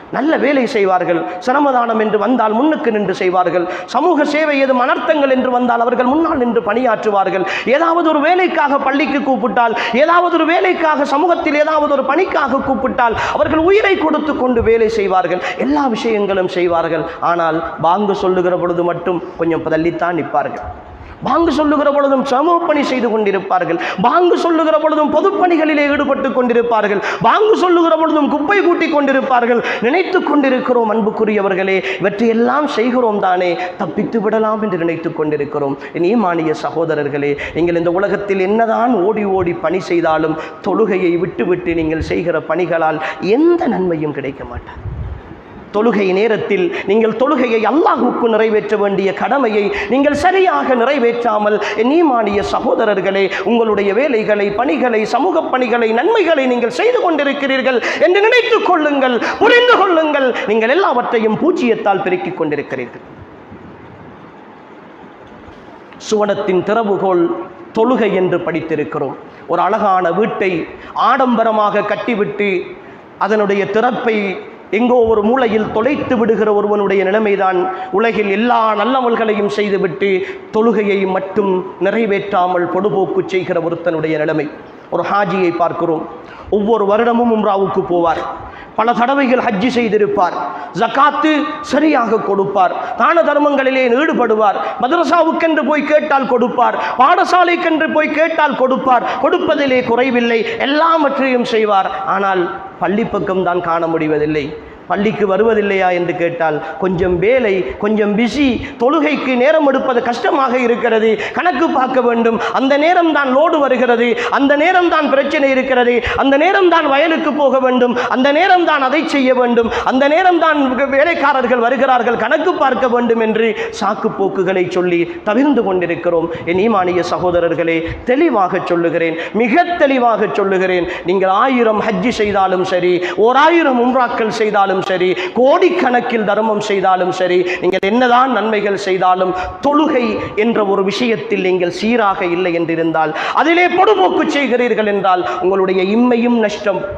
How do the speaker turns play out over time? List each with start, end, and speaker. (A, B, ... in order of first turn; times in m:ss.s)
0:00.1-0:20.6 A
0:21.2-0:44.8 A
0:45.7-1:03.0 A
1:06.0-1:12.6 A
1:13.2-1:28.2 A
1:28.8-2:26.8 A